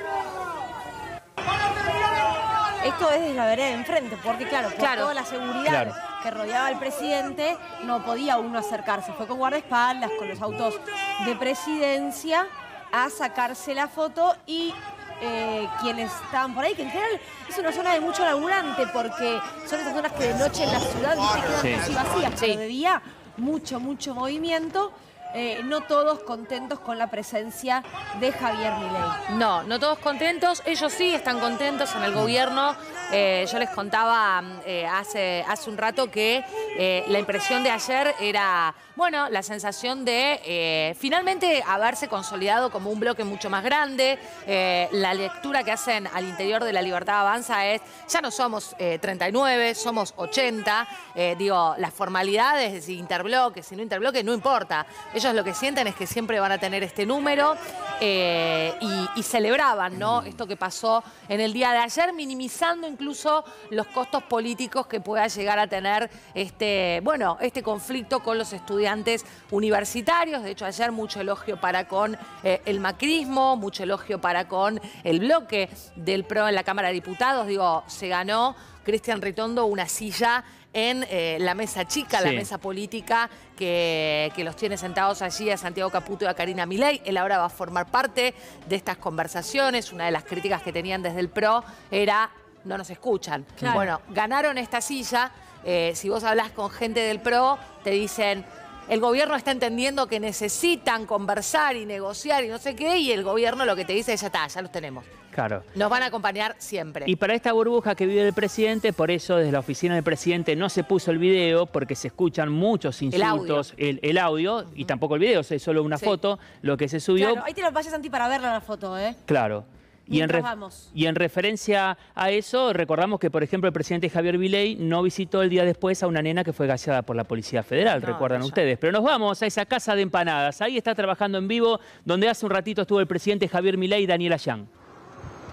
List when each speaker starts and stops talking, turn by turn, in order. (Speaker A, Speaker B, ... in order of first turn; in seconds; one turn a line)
Speaker A: 2.8-29.2
Speaker B: 4.8-5.1
Speaker C: 5.7-6.0
Speaker C: 21.6-21.8
Speaker B: 29.3-105.1
Speaker C: 82.1-82.5
Speaker C: 105.3-105.7
Speaker B: 105.8-107.1
Speaker C: 107.1-117.4
Speaker B: 113.1-113.7
Speaker A: 117.2-119.2
Speaker C: 119.3-134.7
Speaker A: 120.1-120.9
Speaker B: 127.9-128.6